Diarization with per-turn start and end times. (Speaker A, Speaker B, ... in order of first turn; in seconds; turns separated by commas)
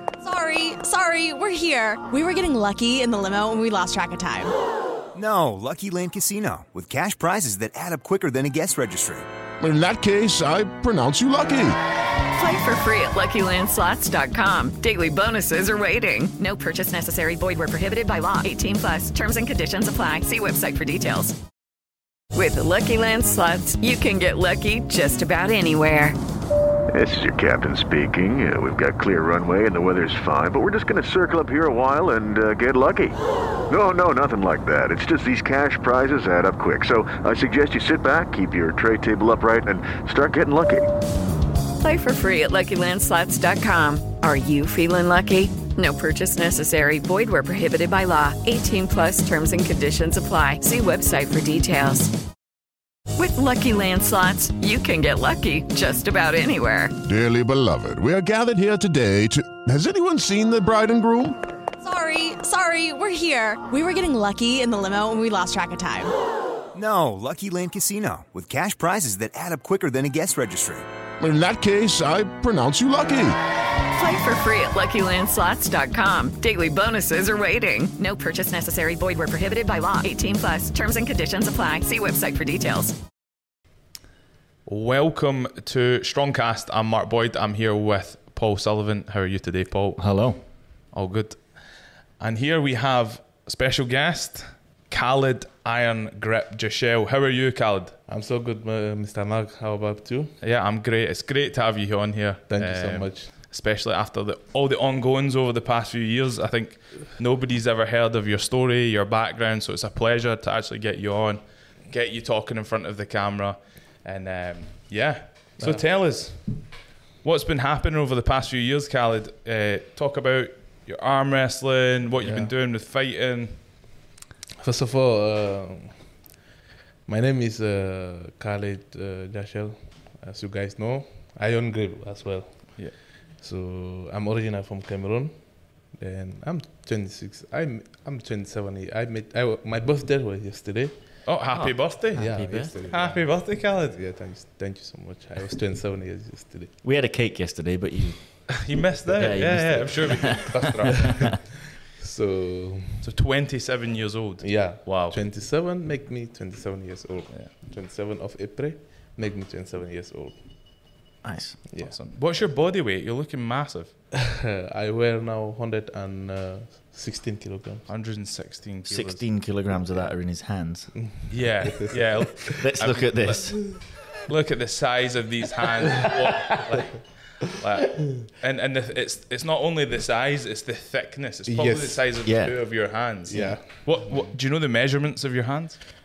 Speaker A: 0.2-4.5, Speaker B: 5.1-9.3, Speaker C: 9.6-11.8, Speaker D: 12.4-21.4, Speaker D: 22.3-26.2, Speaker E: 26.9-40.9, Speaker D: 41.8-52.1, Speaker D: 53.2-56.9, Speaker C: 57.0-61.4, Speaker A: 61.8-66.1, Speaker B: 66.7-70.9, Speaker C: 71.2-73.4, Speaker D: 74.0-83.0, Speaker F: 84.7-98.0, Speaker G: 90.0-90.4, Speaker H: 98.1-100.3, Speaker F: 100.4-123.7, Speaker H: 102.5-103.3, Speaker H: 115.6-115.9, Speaker H: 122.2-122.5, Speaker H: 124.6-126.2, Speaker H: 127.1-141.2, Speaker F: 141.2-144.0, Speaker G: 141.5-142.7, Speaker H: 142.1-146.8, Speaker G: 146.8-151.2, Speaker F: 148.5-151.3, Speaker H: 151.9-153.1, Speaker F: 153.0-155.2, Speaker H: 154.4-160.9, Speaker G: 161.2-161.6, Speaker H: 161.7-162.0, Speaker F: 161.8-164.0, Speaker H: 164.2-167.9, Speaker F: 167.9-169.2, Speaker G: 168.9-171.0, Speaker H: 171.0-172.3, Speaker F: 171.3-185.8, Speaker G: 172.5-173.7, Speaker H: 181.5-182.2, Speaker G: 182.2-183.6, Speaker H: 183.3-184.0